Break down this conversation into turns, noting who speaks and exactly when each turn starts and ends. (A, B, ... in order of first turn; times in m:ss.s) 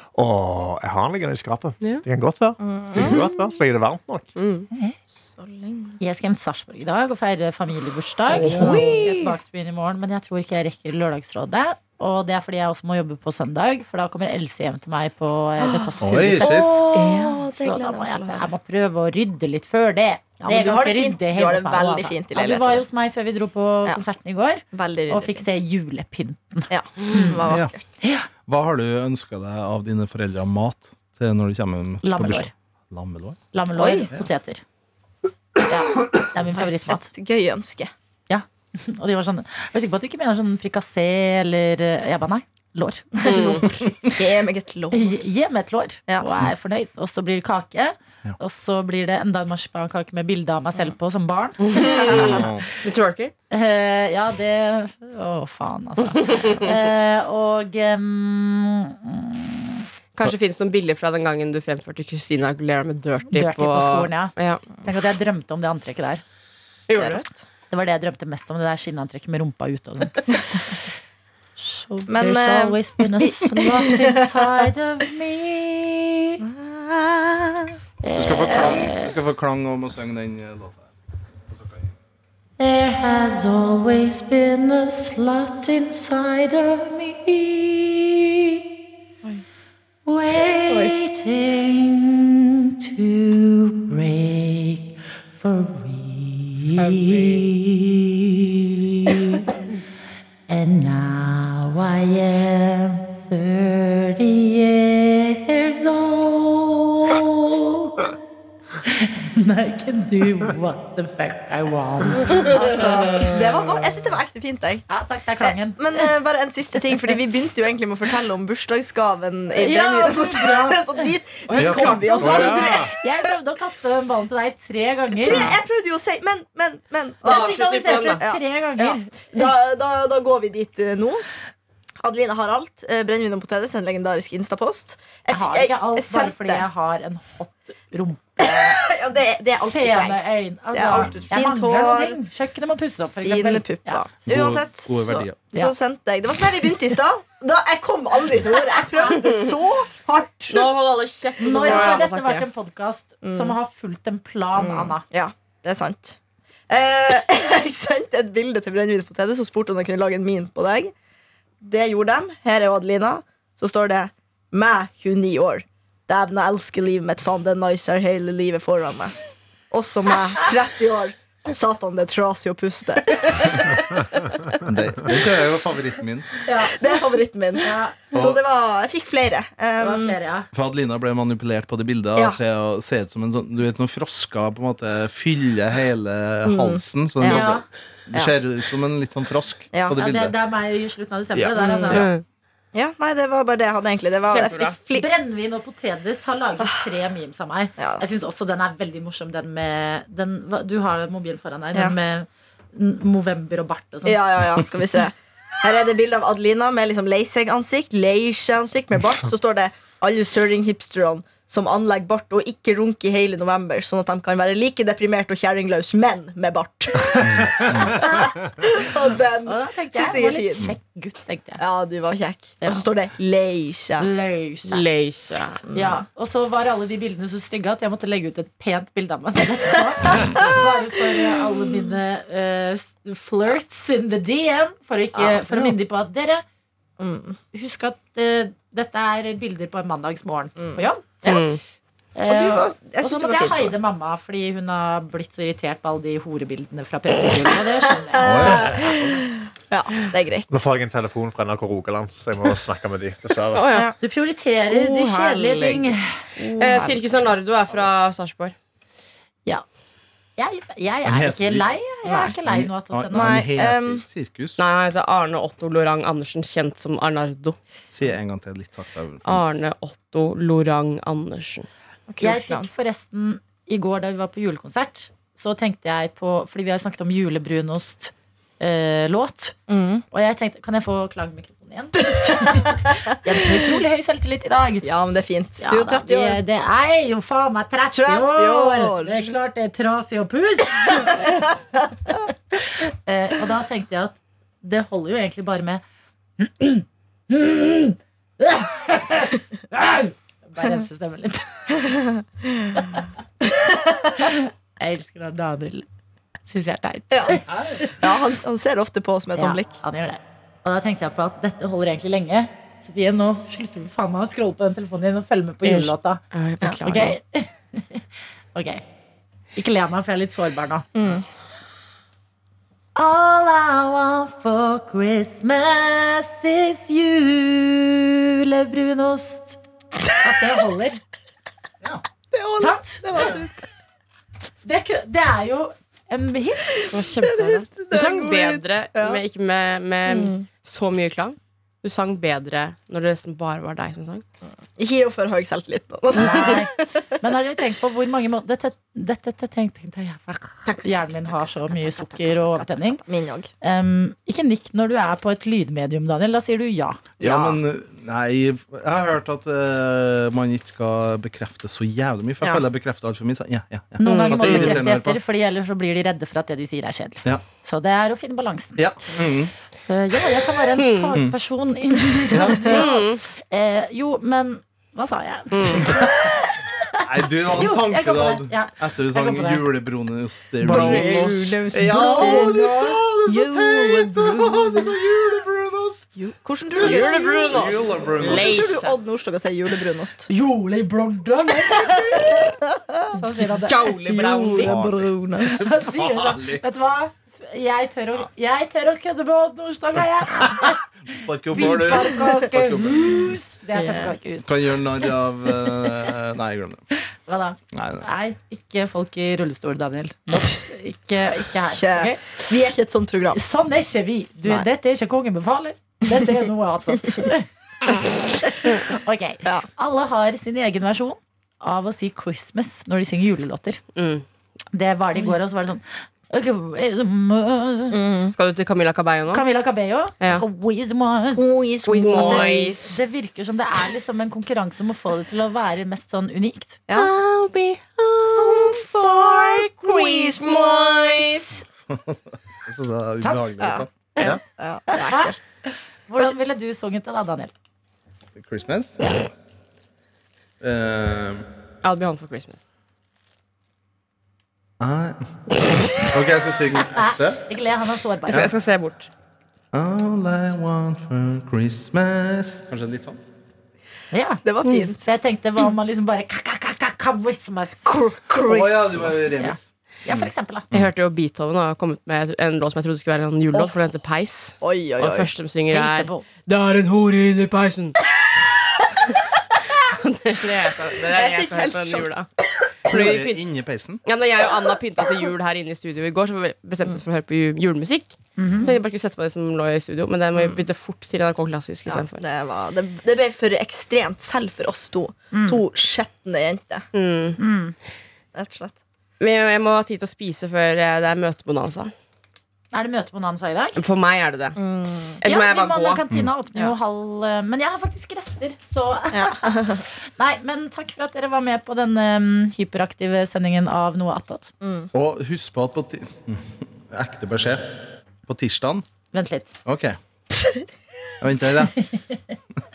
0:00.1-0:04.3 A
0:02.6-0:03.2 B
0:03.0-0:03.2 C
0:04.4-0:04.7 C
0:05.1-0:06.0 B
0:06.0-0:28.3 D
0:08.3-0:09.3 C
0:08.5-0:09.0 B
0:15.6-0:18.5 B
0:16.0-0:16.7 E
0:20.4-0:22.8 B
0:24.7-0:25.5 B
0:26.7-0:27.8 B
0:27.5-0:27.7 E
0:28.4-0:33.4 E
0:32.0-0:32.5 D
0:33.5-0:34.6 D
0:33.8-0:34.1 B
0:35.6-0:37.1 D
0:36.5-0:37.9 B
0:38.3-0:43.8 D
0:43.2-0:45.2 B
0:43.2-0:43.6 C
0:44.9-0:52.4 D
0:51.6-0:53.3 C
0:51.7-0:52.4 B
0:52.1-0:52.6 E
0:53.5-0:59.8 D
0:56.2-0:56.6 C
1:00.1-1:04.6 C
1:03.3-1:06.2 D
1:06.9-1:07.3 C
1:07.0-1:07.3 B
1:07.7-1:10.8 D
1:11.6-1:16.4 D
1:12.1-1:14.2 B
1:16.4-1:17.8 B
1:18.0-1:19.1 D
1:18.2-1:20.9 E
1:21.5-1:21.9 E
1:22.6-1:28.6 D
1:30.0-1:39.5 D
1:30.7-1:30.9 B
1:36.8-1:37.3 C
1:40.5-1:48.1 D
1:48.8-1:53.4 D
1:52.3-1:54.8 B
1:54.9-1:56.1 D
1:55.4-2:02.9 B
1:59.5-2:01.1 D
2:01.5-2:02.7 C
2:01.6-2:02.4 E
2:02.1-2:02.9 A
2:02.2-2:05.5 D
2:05.2-2:07.6 B
2:07.2-2:08.2 C
2:07.2-2:09.1 D
2:08.2-2:11.2 B
2:12.0-2:16.6 B
2:15.3-2:18.8 D
2:18.4-2:20.2 B
2:19.7-2:24.0 D
2:20.7-2:22.2 B
2:20.9-2:21.3 E
2:23.2-2:30.7 B
2:24.3-2:25.4 E
2:30.5-2:32.4 C
2:31.4-2:35.0 D
2:31.4-2:32.0 B
2:33.2-2:33.5 B
2:34.6-2:36.2 B
2:36.7-2:40.9 B
2:41.6-2:49.2 B
2:49.7-2:54.1 B
2:54.6-2:56.4 E
2:56.4-2:57.0 D
2:56.6-3:00.2 B
2:57.6-2:58.2 D
2:58.1-2:58.4 E
2:59.8-3:00.5 D
3:00.5-3:10.3 E
3:06.4-3:07.5 B
3:07.2-3:07.6 D
3:09.7-3:10.0 B
3:09.9-3:12.1 D
3:11.3-3:12.0 E
3:11.6-3:12.1 B
3:11.9-3:12.2 C
3:12.7-3:15.0 B
3:14.3-3:14.8 C
3:14.9-3:24.2 D
3:17.8-3:18.0 B
3:24.0-3:40.7 B
3:37.2-3:37.9 E
3:37.9-3:38.4 D
3:39.4-3:41.6 D
3:41.6-3:44.1 B
3:42.6-3:42.9 D
3:44.0-3:44.8 D
3:44.7-3:45.6 C
3:45.6-3:46.0 B
3:45.7-3:56.4 D
3:50.2-3:50.5 B
3:51.2-3:51.5 B
3:55.1-3:55.7 B
3:57.0-3:57.4 B
3:57.5-4:01.3 D
4:00.6-4:01.4 B
4:01.2-4:01.6 C
4:02.1-4:08.6 D
4:02.2-4:03.7 B
4:08.1-4:10.6 B
4:08.2-4:08.7 E
4:08.5-4:09.0 A
4:10.5-4:13.7 A
4:13.5-4:13.9 C
4:14.0-4:16.8 D
4:14.7-4:15.9 C
4:16.6-4:18.5 C
4:16.7-4:17.2 B
4:20.4-4:23.5 D
4:21.0-4:21.7 E
4:22.0-4:22.3 B
4:22.4-4:24.6 E
4:23.1-4:24.0 B
4:24.6-4:27.6 C
4:27.9-4:29.4 E
4:29.2-4:31.7 C
4:32.1-4:32.7 B
4:32.2-4:39.6 D
4:39.7-4:40.0 B
4:40.1-4:44.8 D
4:42.3-4:42.6 B
4:44.8-4:46.4 B
4:45.6-4:51.5 D
4:47.9-4:49.3 B
4:52.1-4:55.8 D
4:56.4-5:01.6 D
5:01.9-5:04.1 B
5:02.8-5:03.0 D
5:04.2-5:05.8 D
5:06.4-5:08.0 D
5:07.1-5:07.4 B
5:07.5-5:07.8 E
5:08.0-5:09.8 B
5:09.3-5:16.2 D
5:15.6-5:17.2 C
5:16.8-5:18.8 D
5:19.5-5:20.9 D
5:20.9-5:21.2 B
5:22.9-5:29.6 D
5:30.2-5:31.0 D
5:32.3-5:33.6 B
5:32.6-5:33.3 D
5:34.6-5:36.9 D
5:36.9-5:44.2 C
5:37.2-5:39.2 B
5:40.0-5:40.4 B
5:44.8-5:46.8 B
5:46.1-5:53.0 D
5:50.6-5:53.5 B
5:53.6-5:57.1 D
5:57.2-6:05.2 E
5:57.2-5:57.5 B
6:04.0-6:09.2 D
6:04.0-6:04.8 C
6:08.8-6:09.5 E
6:09.9-6:19.7 D
6:10.8-6:11.1 C
6:12.3-6:12.8 E
6:12.7-6:13.2 C
6:15.5-6:15.9 C
6:17.1-6:26.1 E
6:20.6-6:21.4 C
6:20.7-6:22.6 B
6:21.7-6:23.0 D
6:23.2-6:25.0 B
6:26.2-6:30.3 B
6:26.7-6:28.6 E
6:26.8-6:29.0 C
6:30.3-6:32.5 D
6:31.7-6:33.2 B
6:33.1-6:33.9 D
6:33.6-6:34.8 C
6:33.9-6:35.7 B
6:34.6-6:35.0 E
6:35.4-6:40.8 D
6:35.6-6:36.6 E
6:40.4-6:43.3 E
6:41.5-6:44.5 D
6:41.6-6:42.2 B
6:43.7-6:44.1 B
6:44.4-6:46.8 E
6:47.2-6:52.4 D
6:47.7-6:48.1 E
6:51.7-6:53.4 B
6:53.3-7:03.8 D
7:04.0-7:04.2 C
7:04.7-7:08.0 D
7:07.9-7:08.3 B
7:08.3-7:09.4 C
7:09.3-7:11.6 D
7:11.3-7:12.9 B
7:11.8-7:12.9 C
7:12.2-7:16.8 D
7:16.9-7:21.4 C
7:18.4-7:21.6 B
7:18.4-7:19.4 D
7:21.9-7:24.4 E
7:23.2-7:24.4 D
7:23.6-7:25.4 B
7:24.9-7:27.5 D
7:28.3-7:29.1 E
7:30.6-7:31.4 E
7:31.8-7:32.6 C
7:34.8-7:35.3 E
7:35.9-7:37.4 E
7:36.8-7:38.5 D
7:38.3-7:39.1 C
7:39.7-7:43.2 E
7:44.1-7:44.4 D
7:44.4-7:45.1 B
7:45.0-7:47.9 D
7:47.8-7:49.4 B
7:48.4-7:50.2 E
7:49.3-7:50.7 D
7:50.7-7:58.0 C
7:54.6-7:55.3 B
7:55.7-7:56.3 D
7:59.8-8:02.2 C
8:01.1-8:02.1 B
8:02.9-8:03.4 C
8:02.9-8:04.0 E
8:04.0-8:12.2 C
8:08.4-8:08.7 D
8:11.9-8:16.8 B
8:15.3-8:15.6 D
8:16.9-8:17.4 C
8:17.4-8:17.7 D
8:18.3-8:18.8 B
8:19.2-8:21.9 C
8:22.7-8:23.8 D
8:23.8-8:24.6 C
8:24.6-8:25.2 B
8:25.2-8:26.0 C
8:25.2-8:34.5 D
8:29.1-8:29.8 B
8:34.6-8:34.9 B
8:34.9-8:37.6 E
8:38.3-8:38.8 E
8:39.1-8:39.5 D
8:39.6-8:40.0 E
8:41.2-8:41.8 E
8:41.8-8:42.3 D